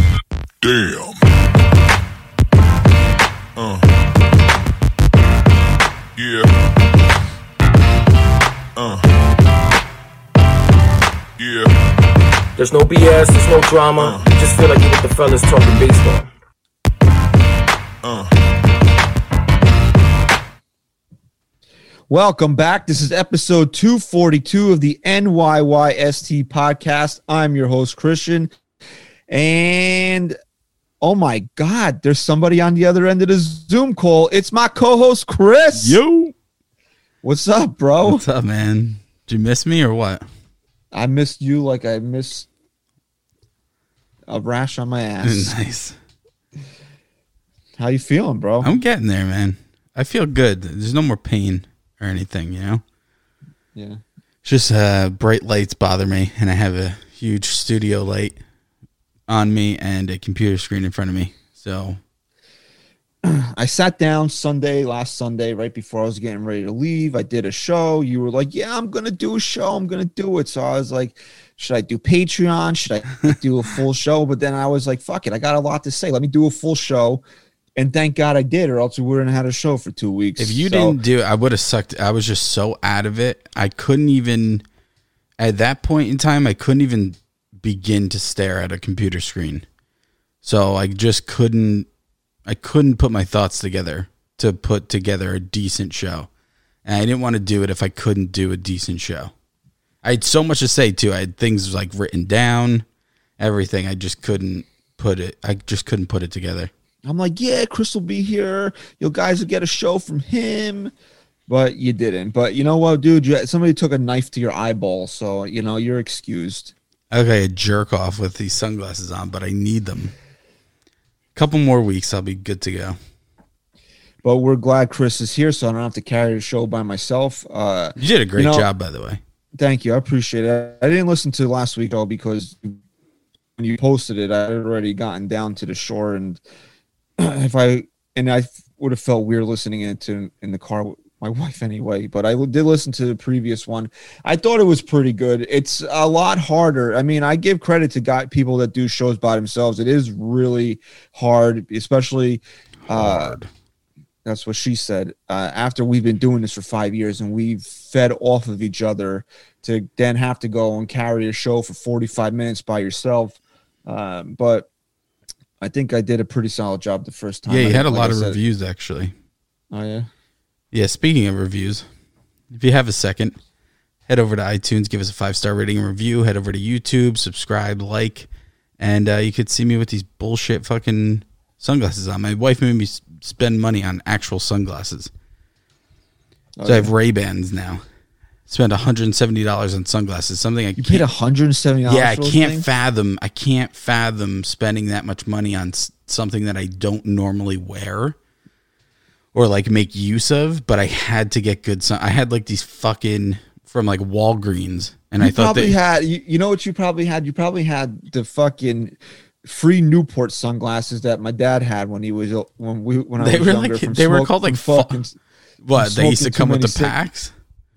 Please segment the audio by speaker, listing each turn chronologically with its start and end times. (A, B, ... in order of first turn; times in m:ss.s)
0:00.6-0:01.2 A
0:03.6-0:03.9 A
0:06.2-0:06.5 A
0:08.8-0:09.1 A
0:11.4-0:11.7 A
0:12.6-0:16.3 B
0:14.0-0:14.3 A
0:18.0-0:18.4 A
0:22.1-0:28.5 C
0:29.3-0:30.4 C
0:31.0-0:36.0 C
0:35.7-0:36.3 D
0:37.2-0:38.2 C
0:38.0-0:40.2 D
0:40.9-0:42.5 C
0:44.3-0:45.6 C
0:45.2-0:46.0 D
0:47.8-0:48.7 C
0:48.6-0:52.8 D
0:53.7-0:54.0 C
0:54.4-0:58.4 D
0:59.3-1:02.0 D
1:03.2-1:17.2 C
1:17.8-1:21.0 C
1:20.4-1:24.6 D
1:25.4-1:29.6 D
1:30.4-1:31.9 D
1:32.4-1:36.3 D
1:36.8-1:39.3 D
1:40.0-1:42.8 D
1:43.4-1:46.7 D
1:47.0-1:50.9 C
1:51.5-1:56.7 C
1:57.1-2:00.1 D
2:01.3-2:03.0 D
2:04.2-2:08.7 C
2:08.0-2:09.2 D
2:09.6-2:12.8 C
2:13.6-2:16.4 C
2:17.2-2:33.4 C
2:32.8-2:33.5 D
2:34.2-2:44.7 C
2:45.6-2:48.4 C
2:47.5-2:49.1 D
2:49.7-2:50.1 C
2:50.7-2:51.9 D
2:52.5-2:53.4 D
2:54.1-2:58.3 D
2:58.8-3:05.1 D
3:06.6-3:06.9 C
3:06.6-3:07.8 D
3:08.5-3:11.1 D
3:10.8-3:12.6 C
3:11.8-3:18.2 D
3:19.3-3:25.7 D
3:25.2-3:35.2 C
3:33.2-3:35.0 D
3:35.6-3:37.3 D
3:35.8-3:37.0 C